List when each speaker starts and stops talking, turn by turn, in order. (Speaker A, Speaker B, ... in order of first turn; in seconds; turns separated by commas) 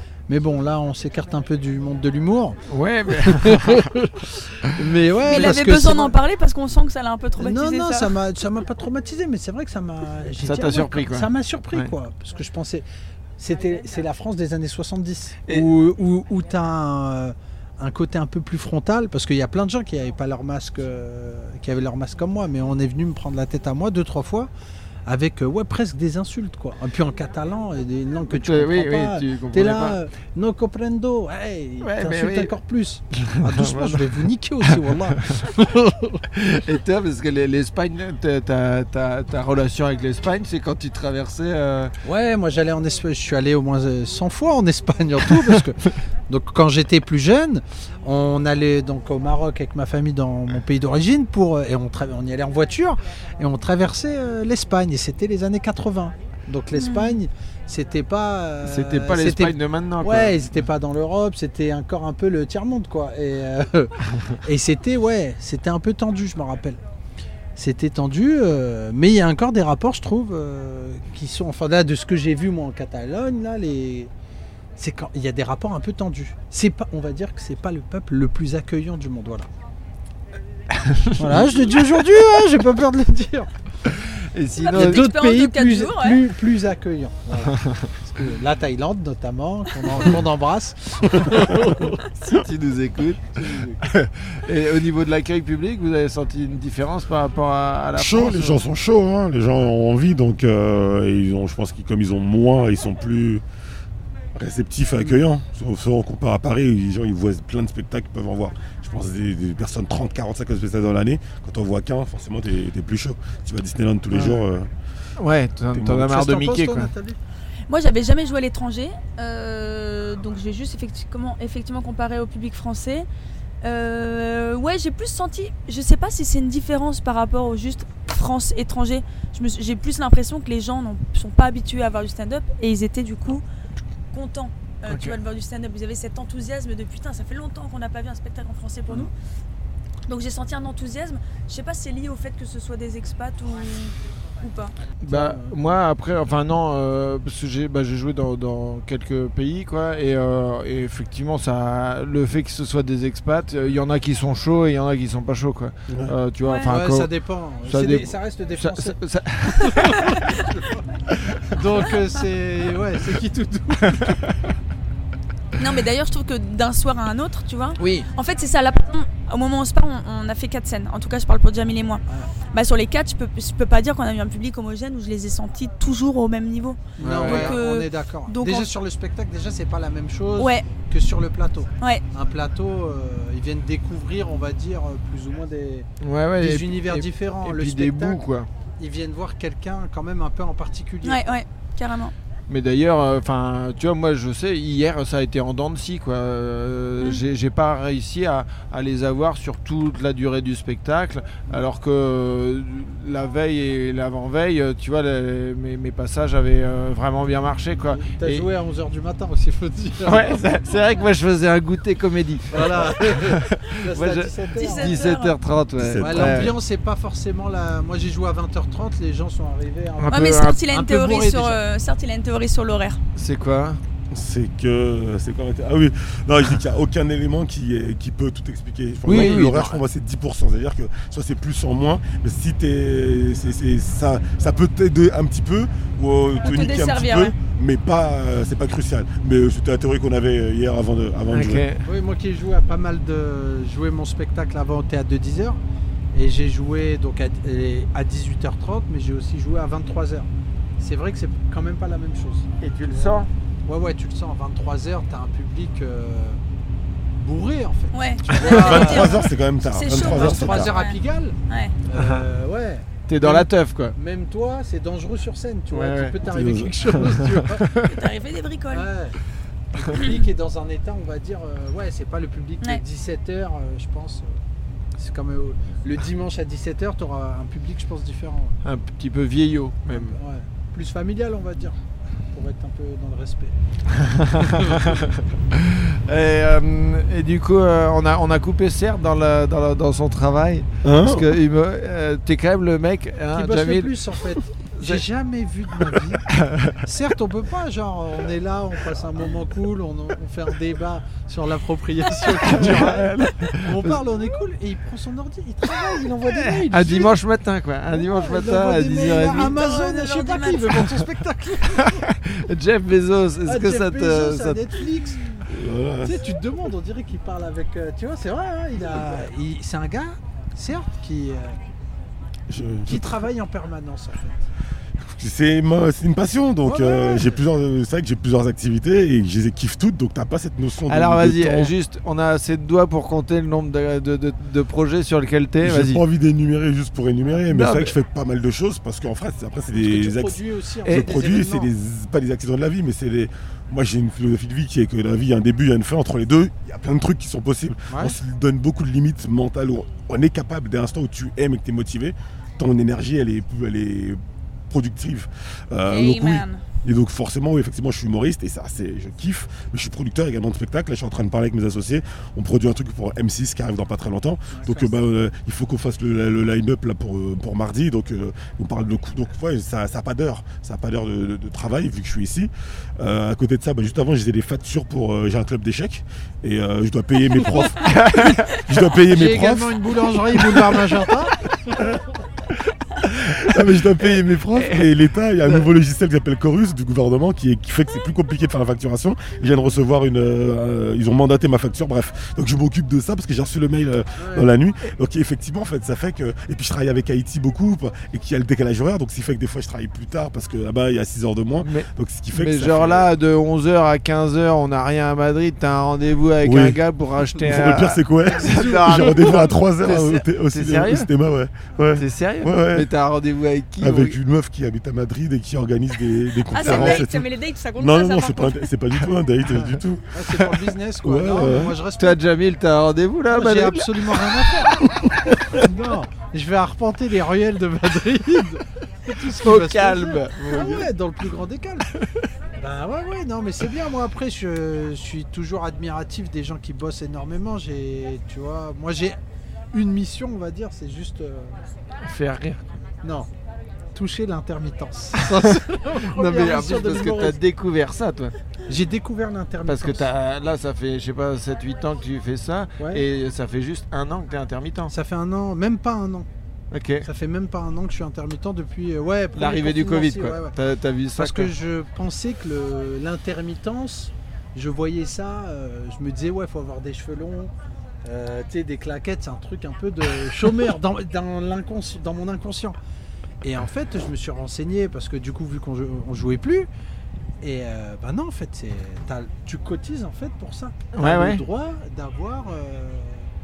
Speaker A: 0.3-2.6, Speaker B: 2.7-3.9, Speaker A: 3.1-6.2, Speaker C: 5.2-8.2, Speaker A: 7.4-12.8, Speaker B: 10.4-11.9, Speaker A: 13.4-24.5, Speaker A: 25.1-36.2, Speaker B: 28.3-30.0, Speaker B: 31.8-32.5, Speaker B: 33.2-34.2, Speaker B: 36.3-41.9, Speaker A: 42.0-66.8, Speaker C: 56.8-57.2, Speaker B: 58.6-60.5, Speaker A: 67.6-74.1, Speaker A: 74.8-79.5, Speaker B: 80.7-82.0, Speaker A: 81.2-83.5, Speaker B: 83.9-85.1, Speaker C: 84.6-86.2, Speaker A: 84.7-92.1, Speaker B: 92.2-98.6, Speaker A: 93.4-93.8, Speaker D: 98.0-103.4, Speaker D: 104.3-114.7, Speaker B: 115.2-116.9, Speaker D: 115.7-116.1, Speaker A: 116.0-117.2, Speaker C: 117.7-123.1, Speaker C: 123.6-133.4, Speaker C: 134.1-139.1, Speaker B: 134.9-135.2, Speaker C: 140.1-144.8, Speaker B: 145.0-157.1, Speaker A: 145.1-145.8, Speaker D: 155.9-156.1, Speaker C: 156.4-156.7, Speaker A: 156.7-160.7, Speaker B: 157.7-160.1, Speaker A: 161.5-164.2, Speaker C: 165.6-178.7, Speaker A: 167.8-168.1, Speaker B: 177.0-177.6, Speaker A: 177.0-188.2, Speaker C: 180.4-180.7, Speaker B: 186.0-188.5, Speaker A: 188.8-191.3, Speaker C: 191.0-192.1, Speaker B: 192.5-208.5, Speaker A: 207.9-210.4, Speaker B: 210.1-216.6, Speaker A: 212.5-215.1, Speaker C: 214.6-215.4, Speaker D: 215.8-216.6, Speaker A: 216.0-221.6, Speaker B: 220.0-220.6, Speaker C: 220.1-223.0, Speaker B: 223.2-223.8, Speaker D: 224.1-241.7, Speaker B: 229.1-229.8, Speaker C: 236.4-237.3, Speaker B: 241.3-241.9, Speaker A: 241.8-245.6, Speaker A: 246.1-250.3, Speaker A: 250.8-256.4, Speaker B: 252.6-253.3, Speaker A: 257.2-259.2, Speaker C: 257.9-261.8, Speaker D: 258.4-260.7, Speaker B: 258.4-258.8, Speaker A: 259.9-267.8, Speaker B: 261.9-262.3, Speaker B: 263.1-263.9, Speaker B: 265.7-266.2, Speaker D: 266.3-267.0, Speaker B: 267.0-267.9, Speaker C: 267.8-268.9, Speaker A: 268.7-269.2, Speaker A: 269.7-274.3, Speaker A: 275.0-278.6, Speaker B: 278.6-280.2, Speaker A: 279.9-281.8, Speaker A: 282.3-283.5, Speaker B: 284.1-294.1, Speaker A: 284.4-284.9, Speaker D: 290.8-291.4, Speaker A: 293.3-307.1, Speaker B: 294.8-295.0, Speaker B: 295.8-296.8, Speaker B: 302.3-304.0, Speaker B: 306.2-309.6, Speaker A: 307.9-312.1, Speaker C: 309.5-310.8, Speaker B: 311.7-314.8, Speaker A: 313.5-315.2, Speaker D: 315.5-316.2, Speaker A: 316.0-321.6, Speaker D: 322.5-323.2, Speaker A: 322.9-324.4, Speaker D: 325.0-331.7, Speaker A: 326.6-327.4, Speaker B: 330.9-336.0, Speaker D: 335.6-354.2, Speaker B: 337.5-337.9, Speaker A: 339.8-341.7, Speaker A: 347.9-348.2, Speaker D: 354.7-380.4, Speaker C: 355.9-356.6, Speaker A: 364.5-364.9, Speaker B: 377.8-378.6, Speaker A: 379.0-381.4, Speaker B: 383.1-384.9, Speaker D: 383.1-403.1, Speaker A: 394.2-394.5, Speaker B: 401.6-411.1, Speaker D: 406.4-406.8, Speaker D: 407.4-412.9, Speaker A: 408.4-409.5, Speaker B: 411.9-414.2, Speaker D: 413.8-420.1, Speaker C: 416.5-418.7, Speaker B: 416.6-417.0, Speaker A: 419.6-422.2, Speaker D: 421.0-421.8, Speaker B: 422.0-424.7, Speaker A: 423.3-424.9, Speaker A: 425.4-431.9, Speaker B: 429.4-430.9, Speaker A: 432.6-439.2, Speaker A: 439.7-441.6, Speaker B: 442.0-442.6, Speaker A: 443.0-443.3, Speaker A: 443.9-447.4, Speaker B: 446.0-448.3, Speaker A: 448.7-450.1, Speaker B: 449.7-454.9, Speaker A: 452.8-453.0, Speaker A: 454.9-456.3, Speaker B: 456.7-457.1, Speaker A: 457.0-460.6, Speaker B: 459.4-461.5, Speaker A: 461.2-467.5, Speaker A: 468.0-472.8, Speaker A: 473.4-476.7, Speaker A: 477.4-483.3, Speaker B: 480.9-481.4